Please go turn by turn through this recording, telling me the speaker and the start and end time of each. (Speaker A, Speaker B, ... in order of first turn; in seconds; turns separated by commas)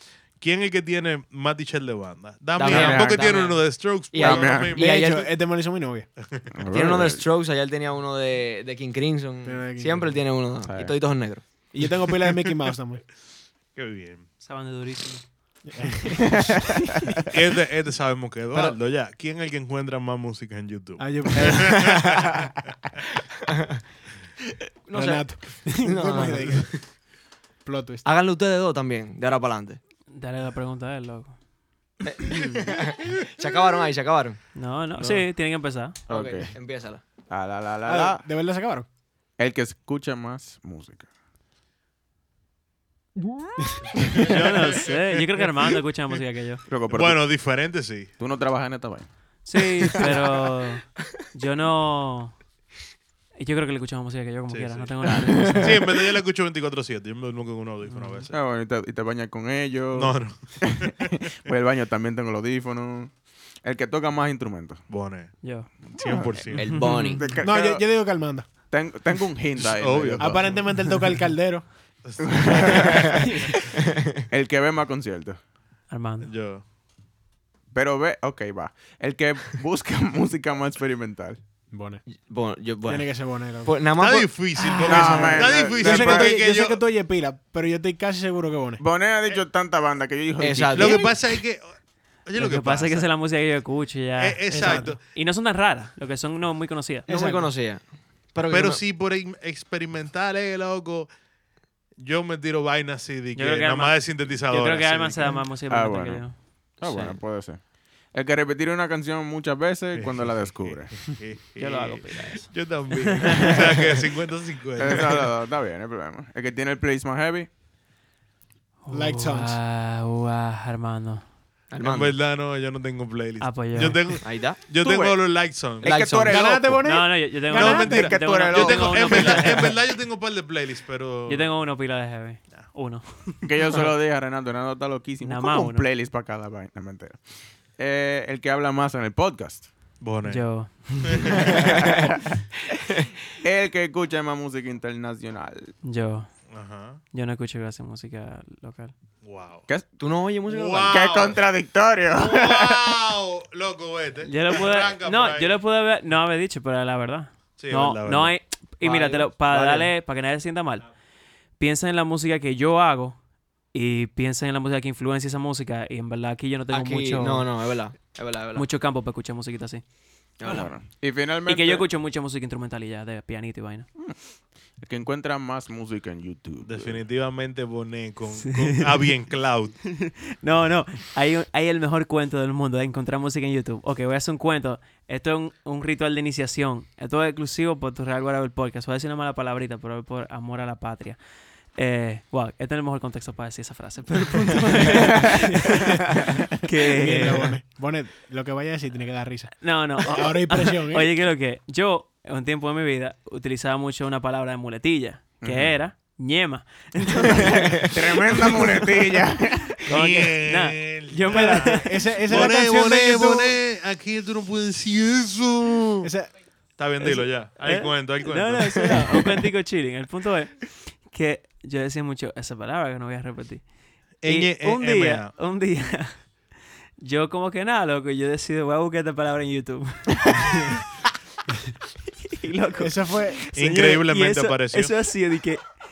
Speaker A: 0.4-5.1, Speaker B: 2.6-5.3, Speaker C: 2.6-3.4, Speaker C: 4.2-4.7, Speaker D: 4.8-6.1, Speaker A: 6.2-6.5, Speaker C: 6.5-7.2, Speaker B: 6.7-11.4, Speaker D: 9.4-10.2, Speaker C: 10.6-11.0, Speaker D: 11.7-13.0, Speaker A: 12.2-12.5, Speaker A: 13.8-14.3, Speaker E: 14.4-15.2, Speaker D: 15.7-16.6, Speaker C: 16.4-17.2, Speaker A: 17.2-22.3, Speaker D: 21.0-21.9, Speaker B: 21.4-22.5, Speaker B: 23.4-23.8, Speaker B: 24.9-26.6, Speaker D: 24.9-26.9, Speaker D: 27.6-28.0, Speaker B: 28.0-29.8, Speaker E: 30.1-31.4, Speaker B: 32.0-34.4, Speaker E: 32.2-32.6, Speaker E: 34.5-36.0, Speaker A: 35.0-35.2, Speaker C: 36.1-36.5, Speaker B: 36.1-37.0, Speaker C: 37.3-38.2, Speaker D: 37.9-38.9, Speaker C: 39.4-41.1, Speaker D: 43.5-44.3, Speaker A: 44.0-45.8, Speaker E: 44.2-46.6, Speaker C: 46.7-47.3, Speaker A: 46.9-48.1, Speaker C: 48.2-49.1, Speaker E: 49.5-52.4, Speaker E: 53.4-55.8, Speaker A: 54.5-54.9, Speaker A: 55.4-58.3, Speaker E: 57.9-58.3, Speaker C: 58.3-63.1, Speaker A: 59.9-61.1, Speaker C: 63.6-64.8, Speaker A: 64.9-67.0, Speaker E: 65.4-65.9, Speaker C: 66.0-66.5, Speaker E: 66.5-67.3, Speaker B: 66.6-67.3, Speaker C: 67.2-67.8, Speaker D: 67.4-68.5, Speaker C: 68.7-70.6, Speaker A: 69.6-71.2, Speaker D: 70.2-71.6, Speaker A: 72.0-73.2, Speaker C: 72.2-73.5, Speaker D: 73.1-73.5, Speaker B: 73.7-74.3, Speaker C: 74.3-75.4, Speaker E: 75.9-76.3, Speaker A: 76.2-76.6, Speaker C: 77.7-81.4, Speaker D: 81.7-82.0, Speaker B: 82.1-84.4, Speaker D: 82.9-83.7, Speaker A: 84.0-86.8, Speaker E: 84.6-85.3, Speaker D: 84.8-88.8, Speaker C: 84.9-86.4, Speaker B: 85.0-85.4, Speaker C: 88.8-91.1, Speaker B: 90.4-91.1, Speaker A: 90.7-91.7, Speaker A: 92.3-93.1, Speaker E: 92.4-97.1, Speaker A: 94.2-95.0, Speaker D: 94.5-94.9, Speaker D: 97.1-97.5, Speaker B: 97.1-98.8, Speaker A: 98.5-101.1, Speaker A: 102.0-105.4, Speaker E: 103.3-107.2, Speaker C: 105.7-111.1, Speaker A: 110.0-115.3, Speaker E: 111.6-113.6, Speaker C: 114.8-117.5, Speaker E: 118.8-121.2, Speaker D: 118.9-119.6, Speaker B: 121.7-122.2, Speaker A: 121.8-126.0, Speaker E: 123.4-124.2, Speaker B: 124.2-124.6, Speaker C: 124.8-126.9, Speaker B: 125.8-126.5, Speaker D: 126.2-128.0, Speaker E: 126.8-129.7, Speaker A: 127.5-131.5, Speaker C: 127.5-129.7, Speaker E: 131.3-133.9, Speaker C: 133.4-137.2, Speaker E: 135.2-135.9, Speaker C: 137.8-139.7, Speaker A: 140.0-141.4, Speaker E: 140.2-141.7, Speaker C: 141.4-142.2, Speaker B: 142.9-143.1, Speaker C: 143.4-145.7, Speaker E: 145.8-146.3, Speaker A: 146.5-147.0, Speaker E: 147.1-148.9, Speaker A: 149.2-149.7, Speaker B: 150.0-151.1, Speaker A: 150.5-151.4, Speaker C: 150.9-153.0, Speaker A: 152.1-155.6, Speaker E: 154.2-160.9, Speaker A: 157.6-158.3, Speaker B: 158.8-159.9, Speaker E: 161.6-163.2, Speaker E: 163.7-167.5, Speaker B: 166.7-168.7, Speaker E: 168.5-169.8, Speaker B: 170.4-170.7, Speaker E: 170.4-170.7, Speaker C: 170.4-171.9, Speaker E: 171.4-173.9, Speaker C: 174.8-177.0, Speaker A: 176.6-179.8, Speaker E: 178.3-179.2, Speaker E: 179.8-191.2, Speaker E: 191.8-197.6, Speaker D: 196.7-201.1, Speaker E: 199.6-208.8, Speaker C: 205.4-205.7, Speaker C: 207.3-209.8, Speaker E: 209.8-212.5, Speaker A: 209.9-216.1, Speaker D: 211.3-213.6, Speaker D: 216.0-216.3, Speaker A: 216.8-218.9, Speaker E: 217.0-223.6, Speaker A: 224.2-225.3, Speaker E: 224.2-226.3, Speaker E: 227.0-230.8, Speaker E: 232.2-235.7, Speaker D: 232.8-233.4, Speaker A: 233.6-234.9